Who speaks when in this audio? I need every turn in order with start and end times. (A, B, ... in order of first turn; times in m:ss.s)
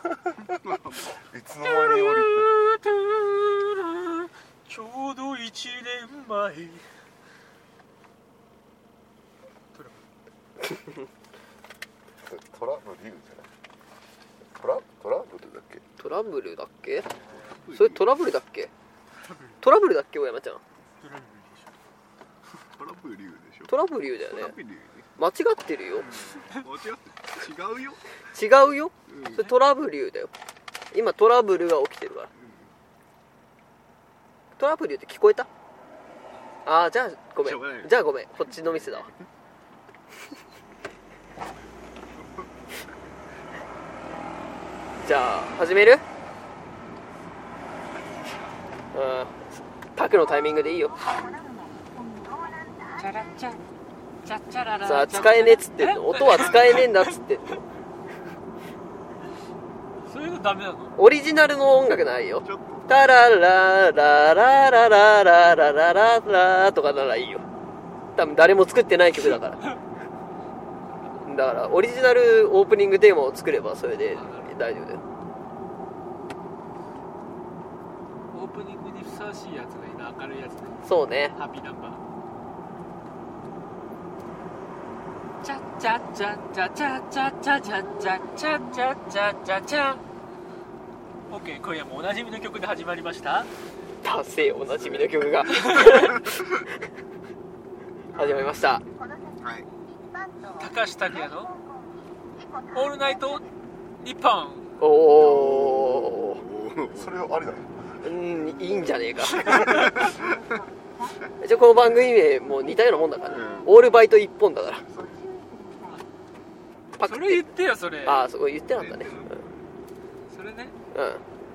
0:00.4-0:01.2 A
0:01.2-0:02.5 B
0:01.6-0:06.8 C
0:09.7-0:10.0 C
0:12.2-0:13.5 B
0:14.6-0:15.8 B
0:16.0-0:17.1 D
0:17.6-0:18.0 A
0:17.7-0:18.7 D
0:19.2-0:19.6 C
0:19.6-0:20.6 D
0:21.0-0:21.7 C
0:22.7-0:23.8 A
0:23.7-0:24.6 D
0:24.3-0:25.1 A
0:25.2-0:26.1 D
0:26.0-0:28.2 A
0:28.3-0:30.3 D
0:29.1-0:29.5 A
0:30.9-0:32.3 D
0:32.4-0:32.7 A
0:34.6-0:35.5 D
0:36.7-0:39.1 D
0:37.4-0:37.9 A
0:38.6-0:39.1 A
0:45.0-0:46.0 D
0:48.9-0:51.0 D
0:53.0-0:53.6 C
0:54.2-0:57.1 C
0:54.8-0:57.6 D
0:56.3-0:56.8 A
1:00.1-1:01.0 C
1:01.0-1:07.4 D
1:02.4-1:03.0 A
1:08.2-1:09.6 D
1:11.2-1:15.0 D
1:14.1-1:14.6 C
1:18.3-1:20.8 C
1:20.8-1:21.4 D
1:21.4-1:22.0 C
1:25.4-1:30.0 C
1:31.3-1:33.5 C
1:34.0-1:36.3 D
1:34.8-1:36.4 A
1:35.5-1:36.2 C
1:38.2-1:38.8 D
1:39.4-1:39.7 A
1:40.6-1:41.6 C
1:42.7-1:43.4 C
1:44.0-1:44.7 C
1:44.8-1:46.4 D
1:45.2-1:47.3 A
1:46.9-1:48.0 B
1:48.0-1:50.0 D
1:49.3-1:50.4 A
1:51.4-1:54.8 D
1:53.3-1:53.8 A
1:54.8-1:55.2 A
1:57.0-1:57.5 D
1:57.0-1:58.3 C
1:58.0-1:59.1 D
1:58.7-1:59.5 A
2:00.3-2:00.8 C
2:00.9-2:01.2 D